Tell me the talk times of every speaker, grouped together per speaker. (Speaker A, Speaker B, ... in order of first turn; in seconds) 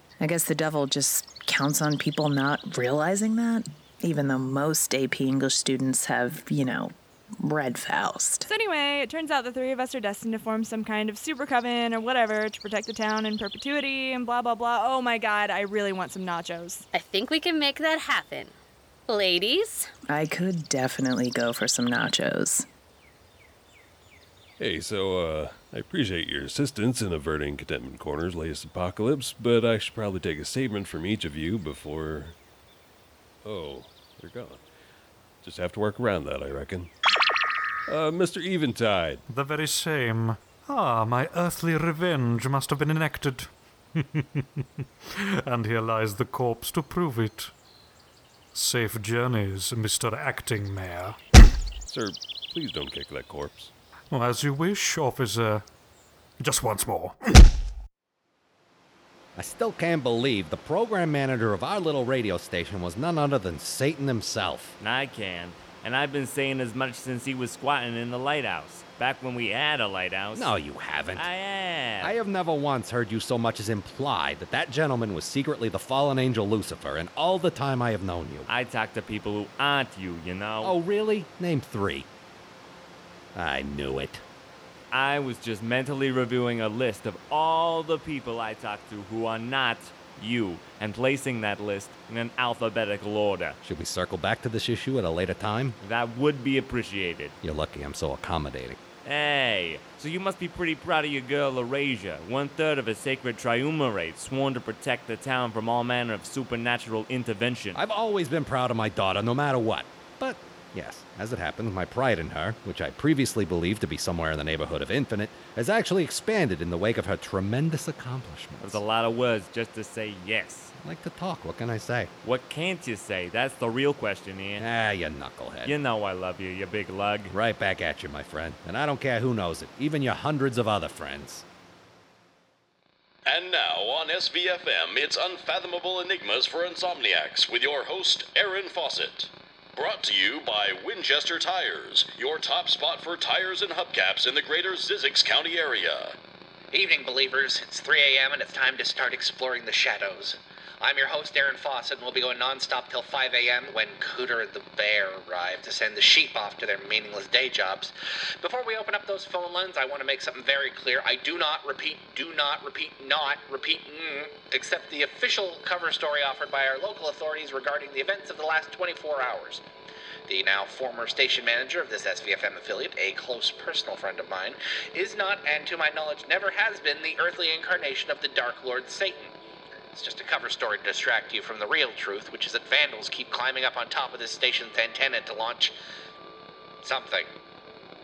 Speaker A: 0.2-8.5, 20.1-22.6
Speaker B: 8.5-16.8
Speaker C: 16.9-18.5, 19.1-19.9
Speaker D: 24.6-32.4, 33.4-34.6, 35.4-36.9, 37.9-39.2, 51.9-53.7
Speaker E: 39.3-47.5, 48.5-51.2, 54.1-55.6, 56.4-57.4
Speaker F: 59.3-64.8, 70.3-71.3, 72.0-78.5, 80.6-82.1, 83.3-84.2, 93.6-95.8, 97.4-98.8, 107.7-118.8, 120.8-122.1, 124.6-125.8, 127.3-131.4
Speaker G: 64.8-70.5, 71.1-72.1, 78.5-80.8, 84.9-93.6, 95.8-97.3, 99.0-107.8, 118.6-120.7, 122.2-124.7, 125.6-127.3
Speaker H: 133.2-146.2
Speaker I: 146.7-169.6, 170.3-179.3, 179.9-185.7, 186.8-187.3